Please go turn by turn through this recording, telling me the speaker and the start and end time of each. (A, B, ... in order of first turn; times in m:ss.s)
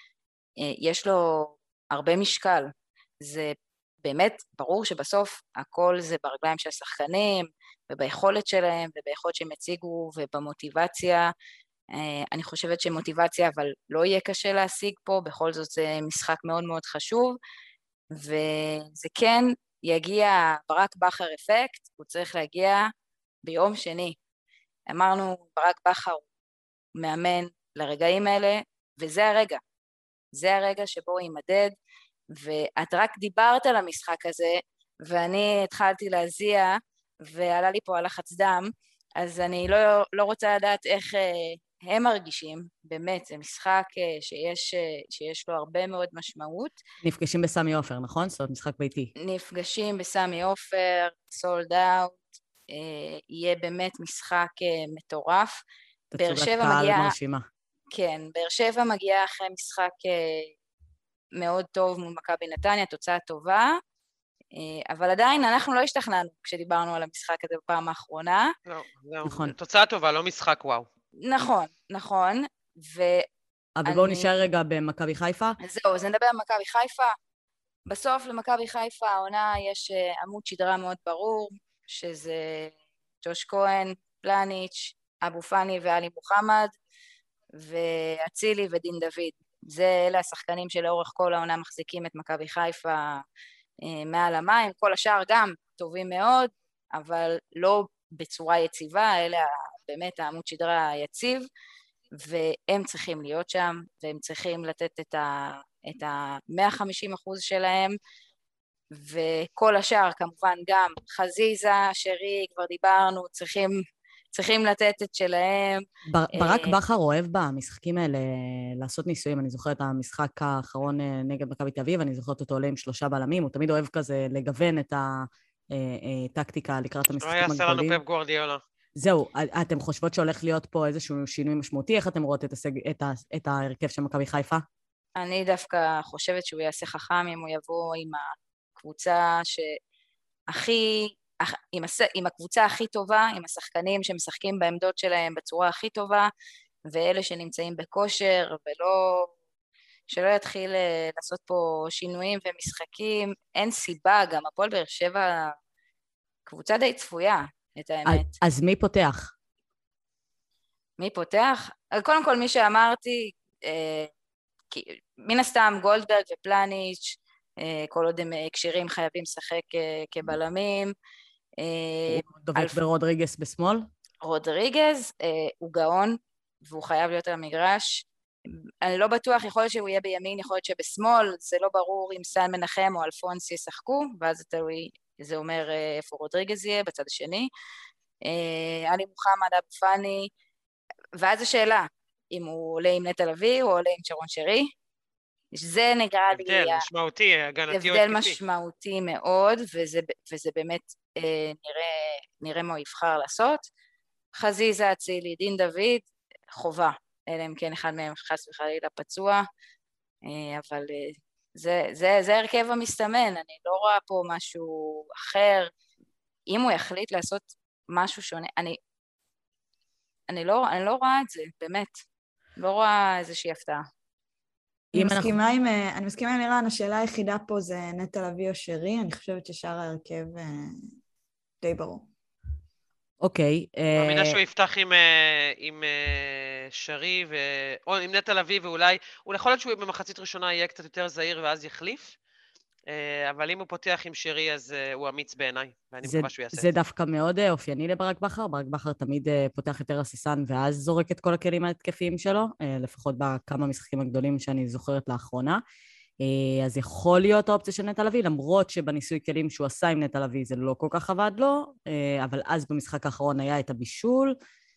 0:00.6-0:11.3 A
0:11.9-0:17.4 A
0:18.1-0:22.9 A
0:23.4-0:24.2 A
0:24.9-0:26.2 A
0:27.0-0:29.6 A
0:30.3-0:31.7 A
0:32.3-0:46.8 A
0:47.0-0:49.1 B
0:49.2-0:55.6 A
0:56.1-0:57.5 B
0:56.2-0:57.1 A
0:57.9-1:00.5 A
1:01.3-1:03.8 A
1:04.5-1:08.5 A
1:08.7-1:10.8 C
1:09.2-1:09.5 B
1:11.2-1:13.3 A
1:13.8-1:15.6 B
1:13.8-1:14.3 A
1:15.6-1:17.2 A
1:17.9-1:26.7 A
1:27.5-1:33.2 A
1:33.8-1:41.5 A
1:42.2-1:48.0 A
1:48.9-1:56.8 A
1:56.1-2:08.0 B
2:07.2-2:08.6 C
2:09.0-2:14.6 B
2:15.2-2:19.8 A
2:20.5-2:26.3 A
2:26.9-2:29.3 A
2:30.1-2:35.5 A
2:36.4-2:38.3 A
2:38.0-2:39.3 B
2:41.0-2:44.1 A
2:44.7-2:50.9 A
2:51.6-2:52.8 A
2:52.1-2:53.9 B
2:54.2-2:58.1 A
2:58.8-3:07.5 A
3:08.2-3:10.3 A
3:11.2-3:14.7 A
3:15.5-3:16.8 A
3:16.3-3:18.4 C
3:17.7-3:23.6 A
3:24.3-3:29.4 A
3:30.2-3:35.7 A
3:36.5-3:38.8 A
3:40.3-3:42.0 A
3:42.6-3:43.9 A
3:44.9-3:50.8 D
3:44.9-3:45.4 B
3:51.6-3:52.1 D
3:53.2-3:54.4 B
3:54.0-4:02.1 C
4:02.9-4:06.7 C
4:06.0-4:15.6 B
4:16.2-4:24.4 B